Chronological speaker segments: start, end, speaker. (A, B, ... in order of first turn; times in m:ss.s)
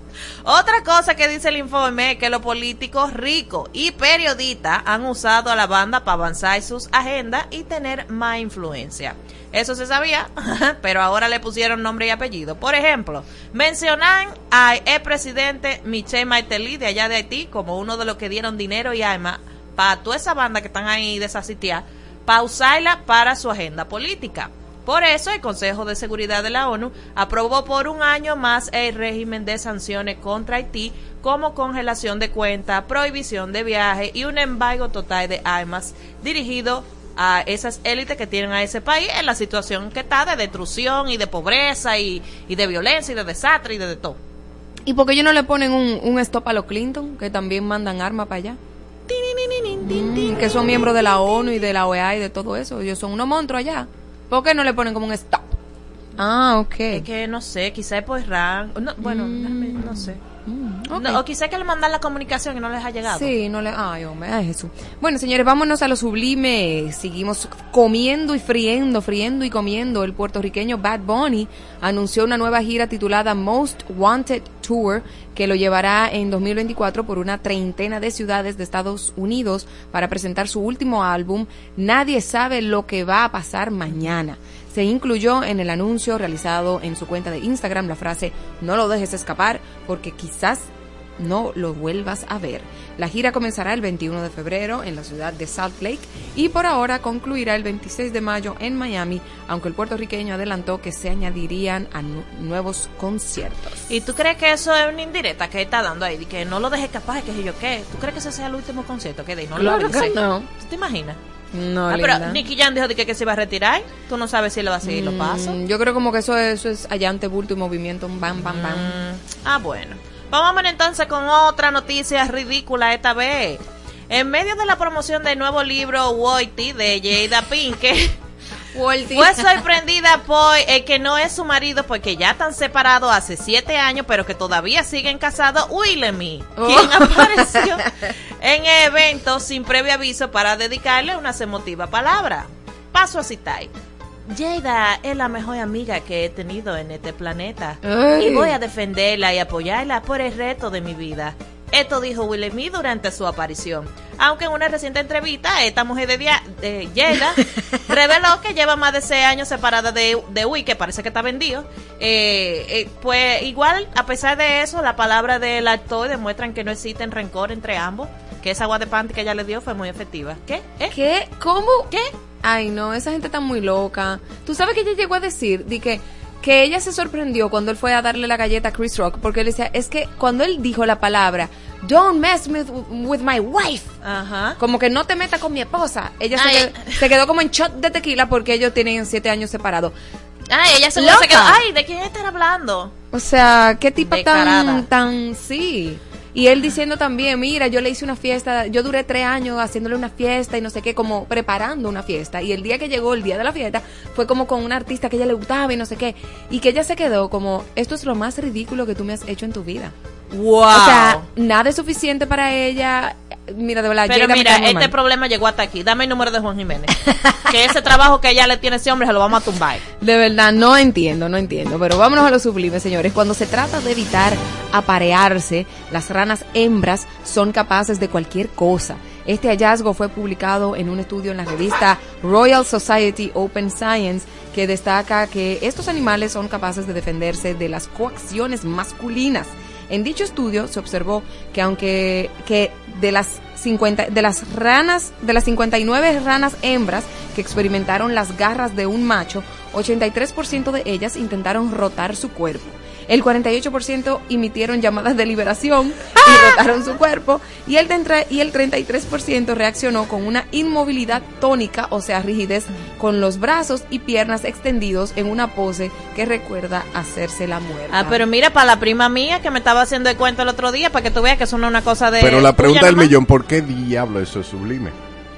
0:00.4-0:44.2 A
0:44.8-0:48.6 B
0:49.1-0:50.3 A
0:49.8-0:55.5 B
0:56.2-0:57.0 B
0:56.9-1:00.2 A
0:59.0-1:01.2 B
1:01.0-1:03.3 A
1:03.1-1:43.8 B
1:43.9-1:51.2 A
1:49.5-1:50.5 B
1:51.5-1:52.4 B
1:51.9-1:55.6 A
1:54.8-1:59.0 B
1:58.5-2:08.1 A
2:08.7-2:09.6 B
2:09.1-2:17.8 A
2:16.6-2:17.9 B
2:18.4-2:23.7 A
2:24.3-2:50.9 A
2:27.8-2:28.5 B
2:50.9-2:51.9 B
2:52.4-3:03.9 B
3:04.0-3:04.6 A
3:04.6-3:09.9 B
3:06.3-3:07.0 A
3:10.5-3:12.9 A
3:11.0-3:11.6 B
3:13.1-3:29.9 B
3:14.0-3:14.8 A
3:30.3-3:31.2 A
3:30.7-3:34.9 B
3:34.0-3:39.8 A
3:40.0-4:28.2 B
4:16.2-4:16.5 A
4:27.9-4:33.1 A
4:32.2-4:35.0 C